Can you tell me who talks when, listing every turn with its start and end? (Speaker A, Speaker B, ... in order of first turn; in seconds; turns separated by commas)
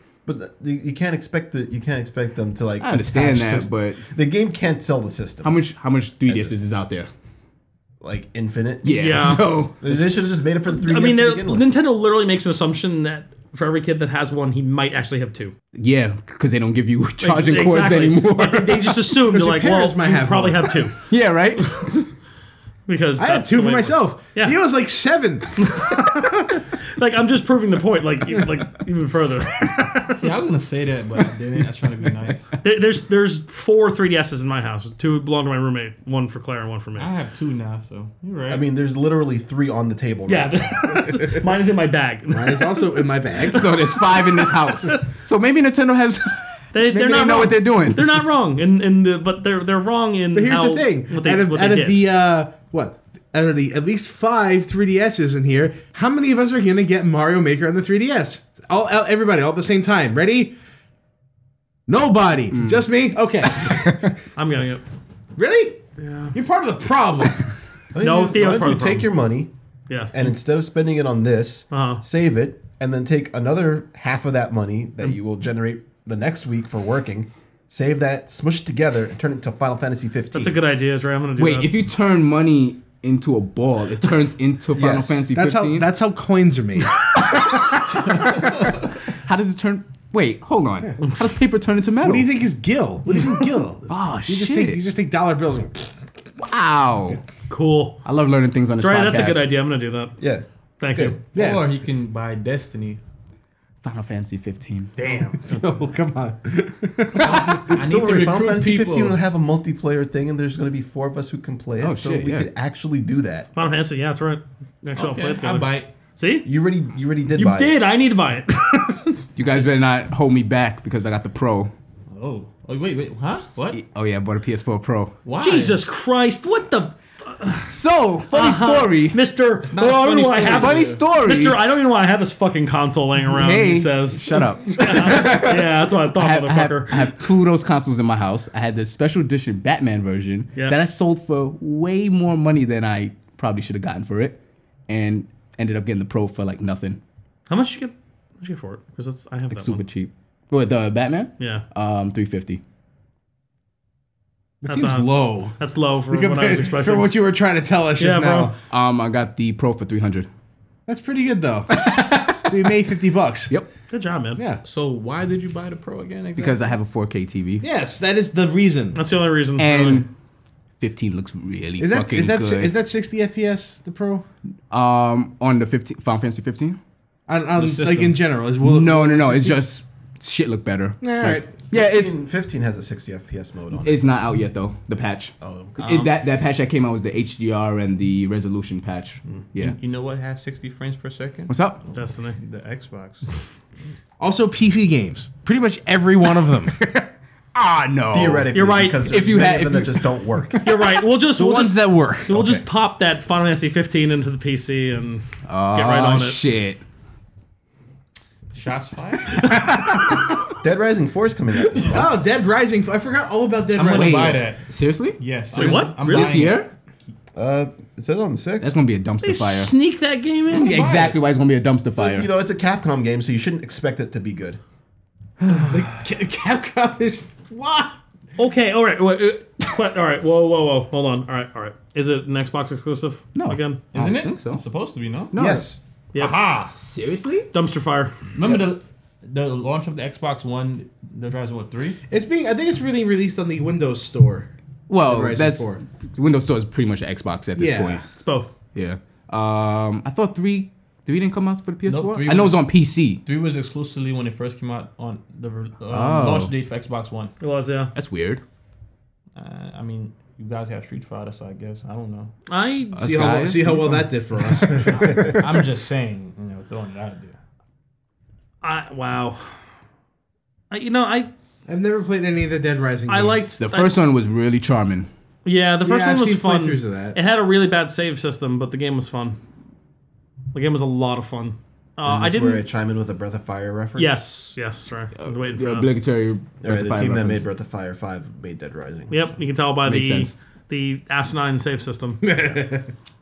Speaker A: 0.3-5.6, Speaker B: 2.8-4.0, Speaker B: 5.4-7.1, Speaker A: 6.3-6.5, Speaker A: 8.0-11.7, Speaker B: 8.8-10.2, Speaker C: 8.9-9.5, Speaker C: 10.7-15.5, Speaker B: 15.7-19.0, Speaker C: 17.2-21.0, Speaker D: 19.2-20.9, Speaker B: 21.1-22.1, Speaker C: 21.6-21.9, Speaker C: 22.9-24.6, Speaker D: 23.2-25.8, Speaker C: 25.6-30.3, Speaker E: 30.2-32.5, Speaker C: 32.6-37.1, Speaker E: 37.0-38.6, Speaker A: 38.5-41.1, Speaker C: 40.3-45.0, Speaker D: 42.3-43.7, Speaker B: 43.5-48.2, Speaker C: 46.7-52.0, Speaker D: 50.3-60.5, Speaker D: 61.9-64.1, Speaker B: 62.5-62.9, Speaker B: 63.6-64.1, Speaker C: 64.3-64.8, Speaker D: 65.4-65.8, Speaker C: 66.0-66.3, Speaker D: 66.3-67.5, Speaker A: 67.9-69.5, Speaker C: 68.0-69.1, Speaker C: 69.9-70.3, Speaker A: 70.1-80.6, Speaker C: 71.7-72.0, Speaker C: 80.3-81.7, Speaker B: 81.4-85.9, Speaker A: 84.7-85.2, Speaker D: 85.3-87.0, Speaker B: 87.2-88.5, Speaker B: 89.1-92.3, Speaker D: 92.0-95.9, Speaker B: 93.9-94.8, Speaker B: 96.4-97.2, Speaker C: 97.5-98.0, Speaker B: 98.0-99.5, Speaker C: 98.8-100.2, Speaker A: 100.2-101.2, Speaker C: 100.8-101.2, Speaker E: 101.3-103.0, Speaker D: 101.3-101.7, Speaker B: 103.8-104.9, Speaker E: 105.0-105.6, Speaker D: 105.4-107.7, Speaker E: 107.2-109.2, Speaker A: 107.7-113.5, Speaker B: 111.8-112.5, Speaker C: 113.6-116.5, Speaker E: 115.0-115.9, Speaker A: 116.5-117.8, Speaker C: 117.3-119.3, Speaker B: 119.4-121.7, Speaker E: 122.1-123.8, Speaker B: 123.7-125.1, Speaker E: 125.2-125.8, Speaker C: 125.4-127.8, Speaker B: 127.7-129.2, Speaker C: 128.3-137.1, Speaker E: 129.6-131.0, Speaker B: 130.5-131.6, Speaker B: 133.3-147.0, Speaker C: 147.5-149.8, Speaker B: 149.5-152.6, Speaker C: 151.4-151.7, Speaker D: 154.6-155.6, Speaker C: 154.7-157.2, Speaker D: 156.1-158.5, Speaker C: 158.0-158.5, Speaker B: 158.7-160.3, Speaker D: 160.9-163.6, Speaker B: 161.7-162.7, Speaker C: 163.9-164.4, Speaker E: 164.6-166.7, Speaker B: 166.4-167.7, Speaker D: 167.6-169.0, Speaker C: 168.9-170.1, Speaker B: 169.6-170.1, Speaker B: 170.8-172.8, Speaker D: 171.8-174.3, Speaker B: 174.7-176.8, Speaker D: 177.3-179.6, Speaker E: 177.5-178.3, Speaker B: 178.6-182.2, Speaker D: 181.0-181.5, Speaker A: 181.7-184.1, Speaker B: 183.8-189.8, Speaker A: 185.4-186.0, Speaker E: 185.8-186.1, Speaker E: 189.6-191.6, Speaker B: 191.5-191.8, Speaker C: 191.9-192.4, Speaker E: 192.4-193.3, Speaker D: 194.2-196.8, Speaker B: 196.7-198.5, Speaker A: 198.1-200.7, Speaker C: 198.5-199.1, Speaker B: 199.1-200.1, Speaker C: 200.6-206.4, Speaker D: 201.3-202.4, Speaker A: 202.3-202.6, Speaker B: 205.5-206.8, Speaker E: 208.5-209.5, Speaker C: 209.3-210.3, Speaker B: 209.7-210.2, Speaker A: 210.6-212.2, Speaker D: 211.9-214.4, Speaker E: 213.8-216.6, Speaker B: 213.9-215.2, Speaker C: 215.5-216.4, Speaker B: 216.0-216.7, Speaker A: 217.4-218.7, Speaker B: 218.6-219.7, Speaker C: 219.2-221.1, Speaker B: 220.5-222.3, Speaker E: 220.7-221.1, Speaker A: 222.0-224.6, Speaker D: 225.7-228.0, Speaker C: 228.4-233.8, Speaker B: 233.3-234.6, Speaker E: 233.9-235.3, Speaker B: 235.3-235.7, Speaker A: 235.3-235.8, Speaker E: 236.2-236.8, Speaker B: 236.8-237.5, Speaker C: 237.5-238.3, Speaker E: 238.3-242.0, Speaker D: 242.1-245.8, Speaker B: 244.9-248.0, Speaker D: 247.6-248.0, Speaker C: 248.2-248.5, Speaker B: 248.8-253.2, Speaker E: 251.9-252.7, Speaker E: 253.2-257.3, Speaker B: 255.9-256.5, Speaker C: 257.4-257.9, Speaker B: 257.9-258.4, Speaker E: 259.4-262.3, Speaker C: 262.5-263.3, Speaker B: 262.9-264.1, Speaker D: 263.0-265.4, Speaker E: 264.9-267.4, Speaker C: 268.6-269.5, Speaker C: 270.7-271.3, Speaker D: 271.7-273.5, Speaker C: 273.1-274.0, Speaker B: 273.6-275.1, Speaker C: 275.4-279.4, Speaker D: 275.8-277.2, Speaker C: 280.5-282.6, Speaker A: 282.1-284.2, Speaker C: 284.0-285.9, Speaker B: 285.2-287.5, Speaker A: 286.6-289.2, Speaker C: 289.1-292.6, Speaker B: 289.9-290.3, Speaker D: 292.2-292.9